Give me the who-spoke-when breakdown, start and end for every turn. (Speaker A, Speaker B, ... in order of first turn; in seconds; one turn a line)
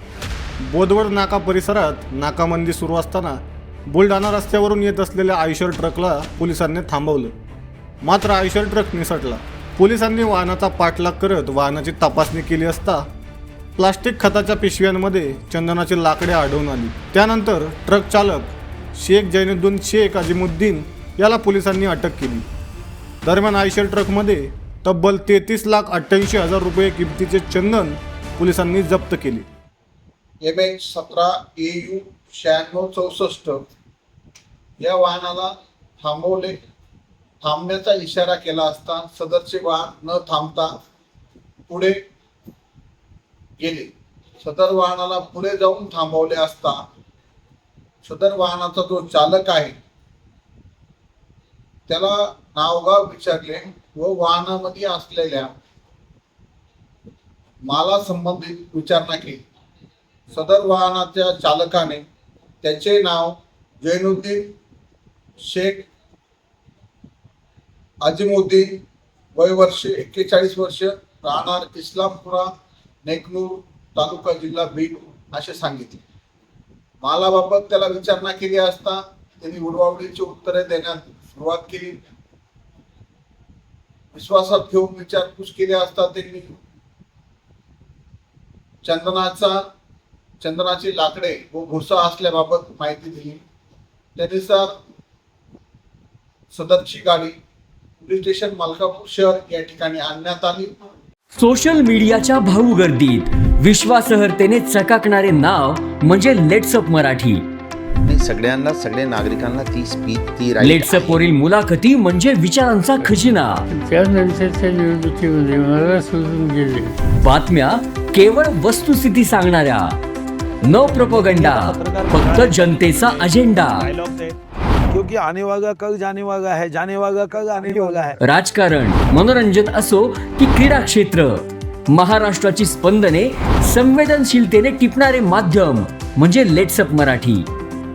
Speaker A: 0.6-7.3
Speaker A: 8.0-13.0
Speaker A: 13.8-22.4
Speaker A: 23.2-29.5
Speaker B: 30.4-33.6
Speaker B: 34.8-36.6
Speaker B: 37.4-40.7
Speaker B: 41.7-42.0
Speaker B: 43.6-46.8
Speaker B: 48.0-49.8
Speaker B: 51.9-55.5
Speaker B: 57.7-59.4
Speaker B: 60.3-62.0
Speaker B: 62.6-64.4
Speaker B: 65.4-65.9
Speaker B: 68.0-68.7
Speaker B: 69.3-72.5
Speaker B: 73.0-76.0
Speaker B: 77.0-81.9
Speaker B: 84.1-86.5
Speaker B: 88.8-89.5
Speaker B: 90.4-93.4
Speaker B: 94.2-94.7
Speaker B: 96.5-97.3
Speaker B: 98.0-100.7
Speaker C: 101.3-107.4
Speaker D: 108.0-111.2
Speaker C: 110.6-113.6
Speaker E: 113.7-116.9
Speaker C: 117.2-120.0
Speaker C: 120.6-123.9
Speaker F: 120.6-124.3
Speaker F: 124.9-128.2
Speaker C: 128.2-137.5